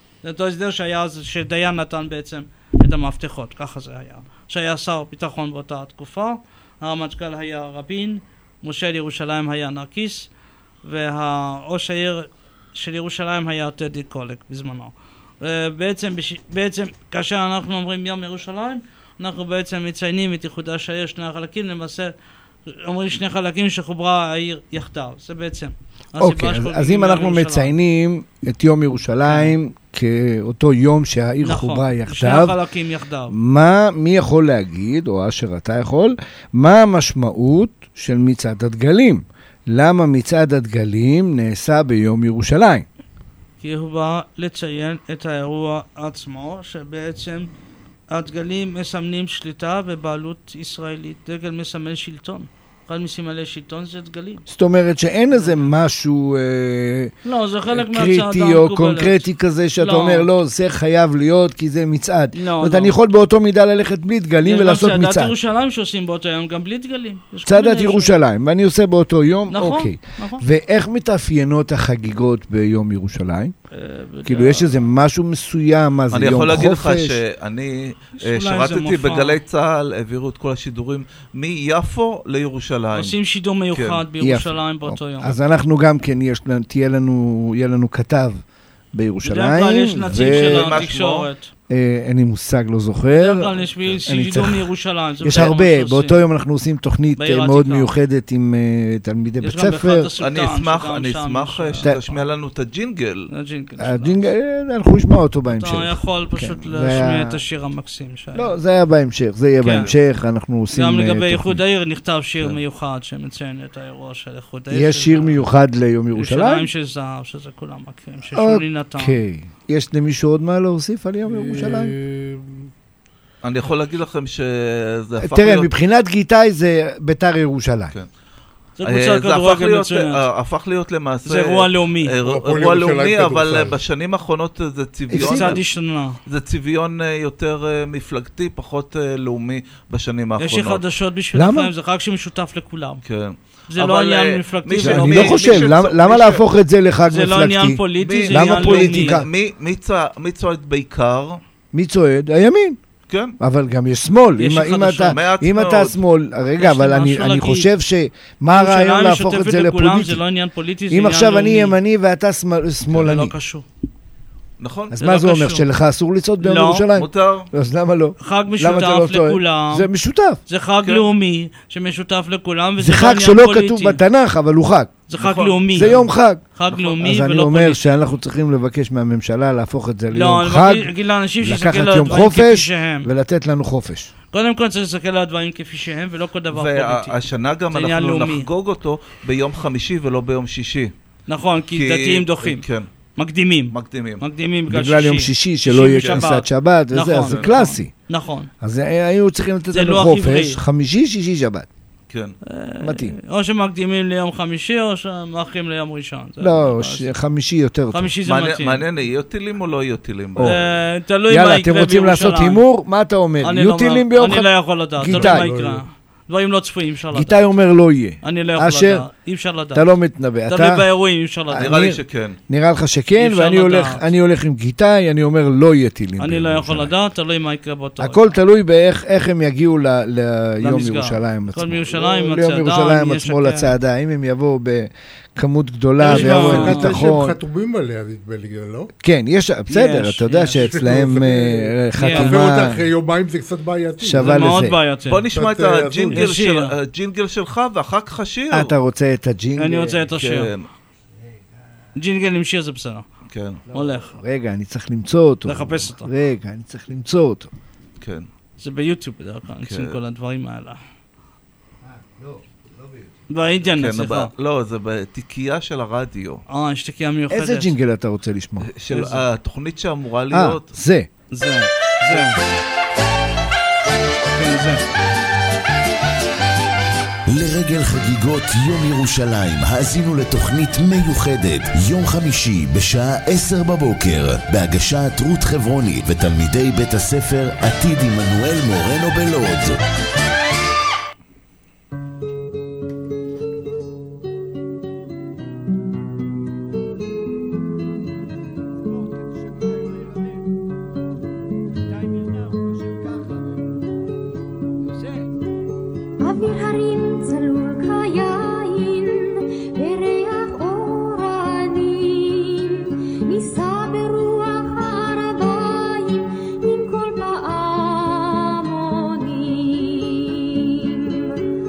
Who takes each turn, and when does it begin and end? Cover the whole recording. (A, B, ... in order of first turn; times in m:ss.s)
0:00.2-0:10.3 A
0:10.8-0:22.1 A
0:22.7-0:27.7 A
0:26.2-0:32.6 B
0:29.2-0:29.6 A
0:31.4-0:33.4 A
0:33.3-0:42.9 B
0:43.6-0:47.5 A
0:48.1-0:54.4 A
0:54.5-0:57.1 B
0:55.3-0:55.7 A
0:57.2-0:59.3 A
0:57.7-1:05.4 B
0:59.8-1:00.3 A
1:02.3-1:03.0 A
1:04.4-1:08.1 A
1:07.5-1:13.5 B
1:09.5-1:10.4 A
1:13.7-1:14.8 A
1:14.2-1:17.2 B
1:16.1-1:23.2 C
1:18.2-1:19.4 A
1:23.0-1:25.4 A
1:23.7-1:24.0 C
1:24.2-1:28.4 B
1:28.9-1:30.9 B
1:29.2-1:31.5 A
1:30.1-1:31.3 C
1:31.7-1:33.5 B
1:33.2-1:36.2 A
1:34.0-1:34.7 B
1:35.2-1:40.1 B
1:37.2-1:37.9 A
1:39.4-1:42.2 A
1:40.2-1:43.3 C
1:43.3-1:44.3 A
1:43.8-1:47.4 B
1:45.5-1:48.5 A
1:48.3-1:51.6 B
1:49.6-1:49.9 A
1:50.7-1:55.4 A
1:54.7-1:56.7 B
1:56.2-1:59.2 A
1:58.3-2:01.9 B
2:01.3-2:02.7 D
2:03.4-2:05.7 C
2:05.2-2:07.9 B
2:08.8-2:10.2 A
2:08.8-2:15.6 C
2:11.3-2:12.1 A
2:12.2-2:13.8 D
2:15.1-2:15.6 B
2:15.2-2:16.2 A
2:16.3-2:20.8 C
2:20.4-2:23.0 A
2:21.3-2:21.7 B
2:23.0-2:26.4 C
2:23.7-2:25.7 A
2:24.8-2:29.3 B
2:27.1-2:29.2 A
2:28.0-2:31.4 C
2:31.7-2:32.8 B
2:33.1-2:33.4 C
2:33.4-2:40.2 B
2:34.4-2:35.2 A
2:35.1-2:36.0 C
2:36.6-2:37.7 A
2:38.5-2:41.8 A
2:40.9-2:43.3 B
2:42.9-2:43.6 A
2:44.6-2:45.0 C
2:44.9-2:50.4 B
2:45.0-2:45.6 A
2:46.4-2:46.9 A
2:46.9-2:47.5 C
2:48.2-2:49.9 A
2:50.5-2:54.0 A
2:52.8-2:55.0 B
2:55.1-2:57.8 A
2:55.2-2:56.0 C
2:55.7-2:56.4 B
2:56.7-2:57.0 C
2:57.0-3:04.1 B
3:00.1-3:03.1 A
3:04.3-3:07.2 A
3:06.5-3:10.9 C
3:07.7-3:08.5 A
3:11.3-3:12.6 A
3:11.7-3:12.9 C
3:13.2-3:18.5 A
3:13.7-3:14.2 C
3:14.7-3:17.9 B
3:15.9-3:16.3 C
3:18.6-3:21.7 B
3:19.7-3:20.6 A
3:22.1-3:22.4 C
3:22.5-3:27.1 A
3:22.8-3:23.2 B
3:26.4-3:28.1 B
3:27.9-3:28.9 A
3:28.2-3:30.8 C
3:30.4-3:30.6 B
3:30.4-3:32.6 A
3:31.3-3:35.5 B
3:33.4-3:37.4 A
3:35.0-3:35.8 D
3:37.1-3:39.0 B
3:38.2-3:39.9 A
3:39.7-3:40.9 B
3:40.5-3:41.7 A
3:41.5-3:46.9 B
3:41.6-3:42.4 C
3:43.2-3:44.0 A
3:46.2-3:48.4 A
3:48.0-3:57.4 B
3:50.6-3:53.7 A
3:56.0-3:57.0 A
3:56.0-3:58.9 D
3:59.0-4:02.9 B
3:59.7-4:00.9 A
4:00.6-4:04.5 D
4:02.0-4:02.4 A
4:04.0-4:04.8 B
4:04.2-4:05.2 A
4:05.1-4:08.7 C
4:05.3-4:06.2 D
4:06.1-4:06.7 A
4:08.5-4:10.1 B
4:09.6-4:10.5 A
4:10.2-4:10.7 C
4:12.0-4:13.1 A
4:13.3-4:13.6 C
4:13.7-4:17.5 B
4:13.7-4:14.2 A
4:15.5-4:16.1 A
4:18.0-4:18.3 C
4:18.6-4:20.8 A
4:19.6-4:20.0 C
4:21.9-4:23.0 B
4:23.3-4:24.3 A
4:23.8-4:26.4 C
4:26.5-4:27.8 A
4:27.3-4:28.7 B
4:28.7-4:30.7 C
4:28.9-4:29.2 A
4:30.3-4:31.1 B
4:31.3-4:32.4 A
4:34.4-4:34.8 A
4:37.3-4:49.8 E
5:06.2-5:21.4 F